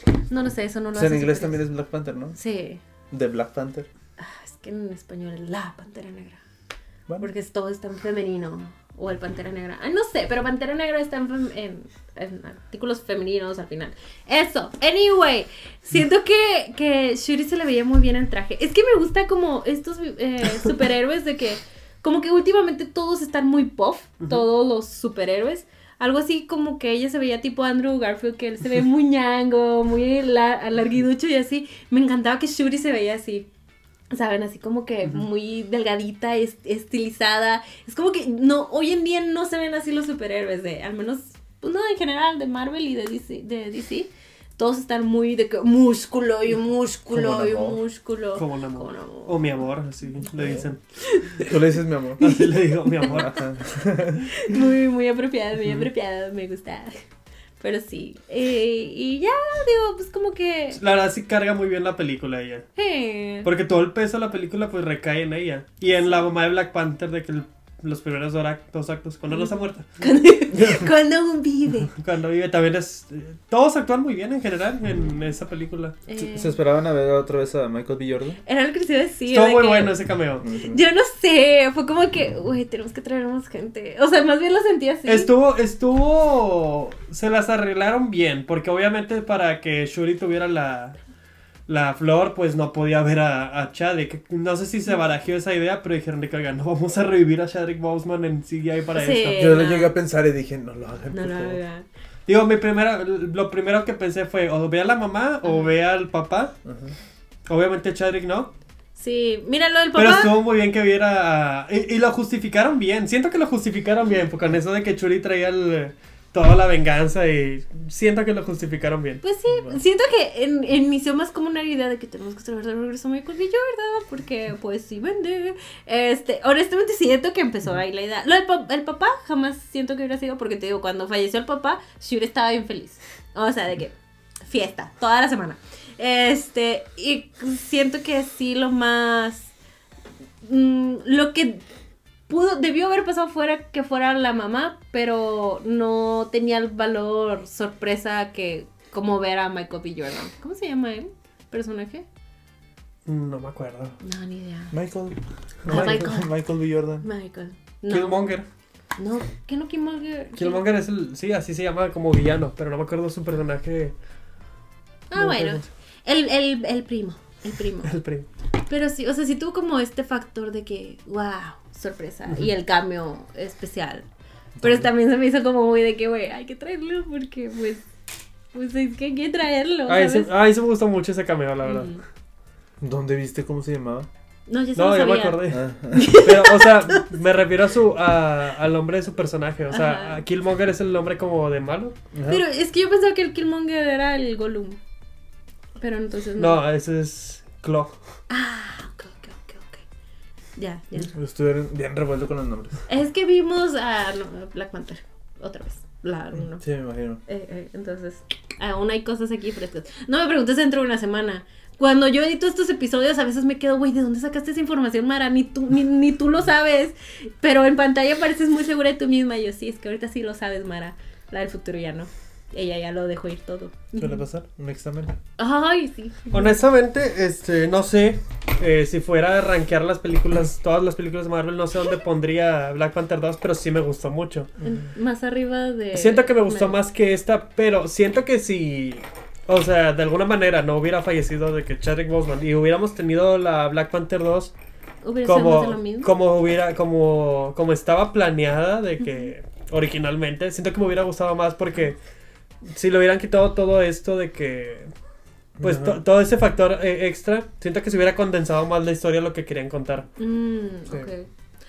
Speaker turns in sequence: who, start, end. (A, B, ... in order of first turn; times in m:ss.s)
0:00.3-0:01.6 A
0:00.9-0:02.4 B
0:02.4-0:02.8 A
0:03.1-0:03.9 B
0:04.2-0:06.4 A
0:07.2-0:33.5 A
0:34.1-0:49.3 A
0:47.1-0:47.8 B
0:48.4-0:50.8 C
0:51.0-0:51.4 A
0:51.4-0:52.2 B
0:52.2-0:53.4 C
0:52.2-0:53.4 A
0:53.1-0:54.3 B
0:54.2-0:57.0 A
0:57.6-1:00.8 A
1:00.8-1:02.7 C
1:02.8-1:03.5 A
1:03.4-1:09.9 C
1:10.0-1:11.9 A
1:11.9-1:16.0 C
1:16.1-1:16.6 A
1:16.2-1:18.4 B
1:18.4-1:20.0 A
1:19.3-1:20.4 C
1:20.4-1:20.8 B
1:20.6-1:25.3 A
1:25.1-1:31.0 C
1:31.7-1:39.6 C
1:39.0-1:39.9 A
1:39.4-1:41.6 B
1:41.1-1:41.9 A
1:42.3-1:46.5 C
1:45.4-1:45.7 A
1:46.6-1:46.9 B
1:47.5-1:48.5 C
1:49.0-1:50.4 A
1:50.0-1:59.2 C
1:59.2-2:19.5 A
1:59.5-1:59.8 B
2:20.4-2:21.6 A
2:22.3-2:32.1 A
2:33.1-2:34.0 C
2:34.0-2:34.7 A
2:34.7-2:37.1 B
2:35.7-2:36.0 C
2:35.7-2:36.3 A
2:37.0-2:38.2 A
2:37.9-2:38.5 C
2:39.0-2:40.6 A
2:40.4-2:43.9 C
2:45.1-2:47.9 A
2:45.2-2:45.7 C
2:47.8-2:48.3 C
2:48.7-2:54.1 A
2:54.6-2:54.9 B
2:54.6-2:57.8 A
2:58.5-3:00.3 A
2:59.9-3:02.0 C
3:01.6-3:02.0 A
3:02.8-3:04.1 B
3:04.5-3:07.1 A
3:04.8-3:12.0 C
3:05.5-3:06.2 B
3:09.7-3:10.2 A
3:12.1-3:12.4 B
3:12.3-3:14.8 A
3:15.8-3:16.6 A
3:16.4-3:18.0 C
3:18.3-3:19.8 A
3:20.6-3:21.1 A
3:21.1-3:22.8 B
3:22.9-3:26.6 A
3:26.4-3:27.2 B
3:27.3-3:44.2 A
3:44.0-3:45.2 B
3:45.4-3:46.6 A
3:46.3-3:54.5 C
3:54.6-3:56.8 A
3:55.9-4:04.5 C
4:05.0-4:06.1 A
4:05.2-4:12.0 C
4:09.0-4:09.3 A
4:12.7-4:14.9 C
4:15.6-4:16.0 B
4:15.6-4:20.1 C
4:20.2-4:21.3 A